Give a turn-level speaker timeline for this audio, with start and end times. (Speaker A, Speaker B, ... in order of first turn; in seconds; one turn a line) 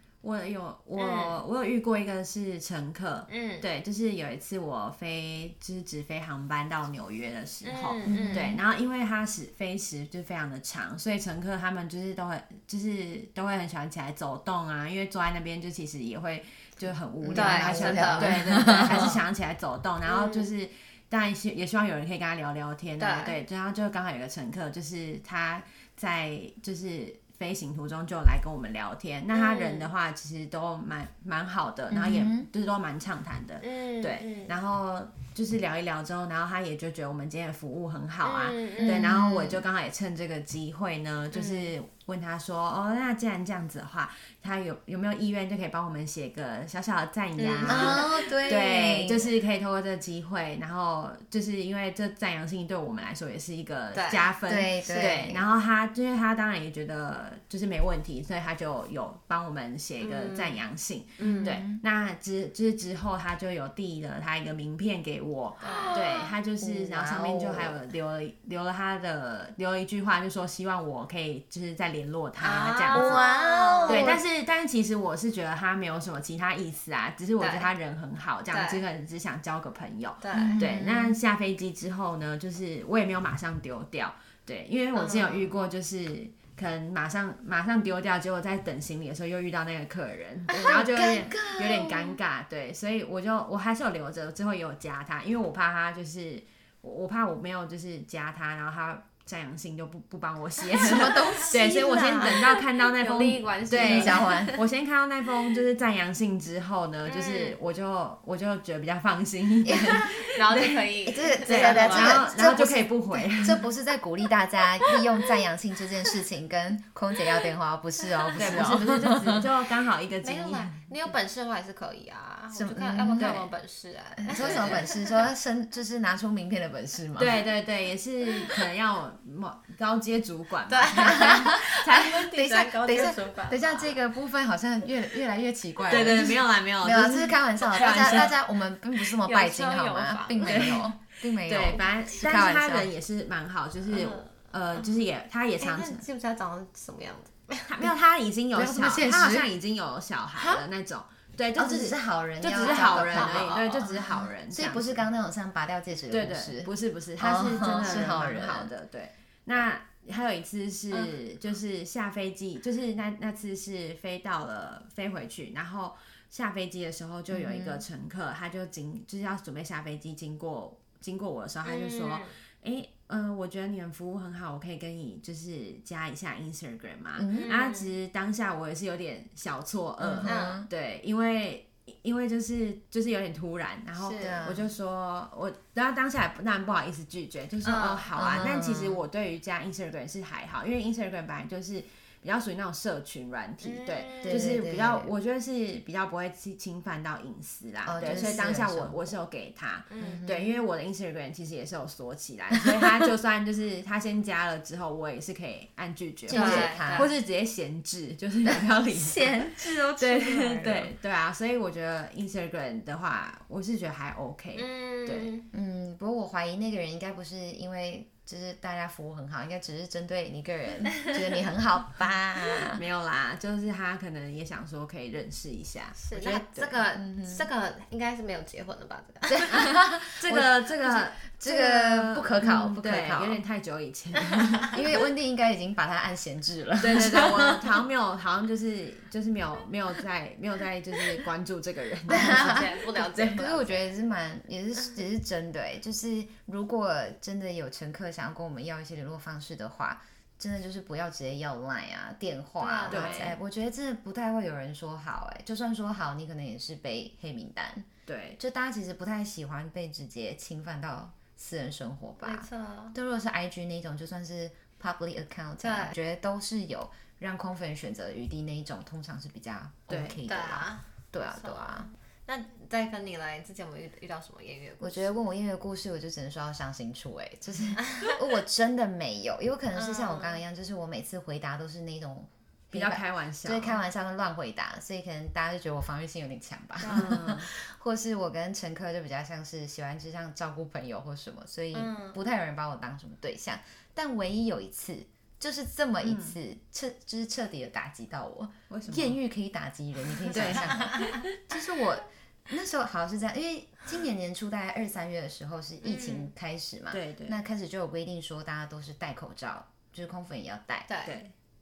Speaker A: 0.2-73.3
Speaker B: 1.0-1.4
Speaker B: 3.3-3.6
Speaker B: 7.6-8.6
Speaker C: 8.1-8.6
Speaker C: 17.2-19.2
Speaker B: 17.3-18.3
Speaker B: 20.0-20.5
Speaker B: 23.0-23.4
Speaker B: 29.3-29.9
Speaker C: 31.9-32.5
Speaker B: 33.6-34.5
Speaker B: 38.2-39.1
Speaker C: 38.8-39.6
Speaker B: 41.3-41.7
Speaker B: 47.4-48.3
Speaker C: 47.7-49.3
Speaker B: 53.9-54.3
Speaker C: 54.5-55.4
Speaker B: 60.0-60.6
Speaker B: 61.2-61.6
Speaker C: 61.2-61.8
Speaker B: 65.6-66.3
Speaker C: 65.7-67.8
Speaker B: 72.4-74.1
Speaker C: 72.9-74.2
Speaker A: 73.8-110.9
Speaker B: 77.4-77.7
Speaker B: 78.5-78.8
Speaker B: 80.2-80.6
Speaker C: 80.3-81.2
Speaker B: 84.9-85.5
Speaker C: 90.5-92.2
Speaker C: 100.8-102.3
Speaker B: 100.8-104.6
Speaker C: 103.8-104.6
Speaker B: 107.0-107.6
Speaker C: 109.6-110.1
Speaker B: 109.7-112.4
Speaker C: 111.0-119.7
Speaker A: 111.4-113.6
Speaker B: 114.9-115.2
Speaker B: 118.2-118.7
Speaker A: 118.4-120.8
Speaker B: 120.2-125.2
Speaker C: 122.5-123.4
Speaker A: 123.2-123.5
Speaker C: 124.2-127.4
Speaker A: 124.3-124.8
Speaker A: 127.2-132.3
Speaker B: 130.7-134.0
Speaker C: 130.9-142.9
Speaker A: 135.9-138.4
Speaker B: 139.2-140.8
Speaker A: 140.5-140.9
Speaker A: 141.4-146.0
Speaker B: 143.9-144.8
Speaker B: 145.6-147.7
Speaker A: 147.7-155.1
Speaker C: 148.5-149.5
Speaker B: 150.3-150.6
Speaker C: 151.5-158.7
Speaker B: 152.5-154.0
Speaker A: 156.1-215.3
Speaker C: 167.3-167.8
Speaker B: 171.6-172.3
Speaker C: 177.2-177.5
Speaker B: 177.3-177.9
Speaker C: 180.0-180.7
Speaker B: 180.2-180.6
Speaker B: 184.0-184.5
Speaker C: 184.2-184.7
Speaker B: 187.6-188.1
Speaker C: 188.1-189.0
Speaker B: 193.6-194.6
Speaker C: 194.2-195.1
Speaker C: 197.8-199.0
Speaker B: 198.0-198.4
Speaker B: 199.9-200.2
Speaker C: 200.0-200.6
Speaker C: 202.7-203.1
Speaker C: 206.3-207.1
Speaker B: 206.3-207.1
Speaker C: 208.4-210.9
Speaker B: 214.6-215.5
Speaker C: 215.5-222.8
Speaker A: 222.7-226.8
Speaker B: 225.9-229.7
Speaker C: 226.2-227.5
Speaker C: 229.3-233.4
Speaker A: 229.5-234.8
Speaker C: 234.7-237.8
Speaker A: 236.8-243.4
Speaker B: 242.1-243.9
Speaker C: 242.1-271.9
Speaker B: 252.6-253.3
Speaker A: 252.9-253.4
Speaker A: 258.1-258.4
Speaker B: 262.2-262.9
Speaker B: 265.6-265.9
Speaker A: 269.9-270.2
Speaker B: 270.3-275.2
Speaker C: 274.8-310.9
Speaker B: 277.8-278.2
Speaker B: 279.7-280.4
Speaker A: 282.7-283.8
Speaker B: 286.8-287.1
Speaker A: 286.8-287.5
Speaker B: 291.7-292.2
Speaker A: 296.0-296.4
Speaker A: 298.7-299.2
Speaker A: 300.3-301.3
Speaker B: 300.7-301.2
Speaker B: 305.8-306.3
Speaker A: 306.9-307.4
Speaker B: 310.9-311.2
Speaker A: 311.0-311.3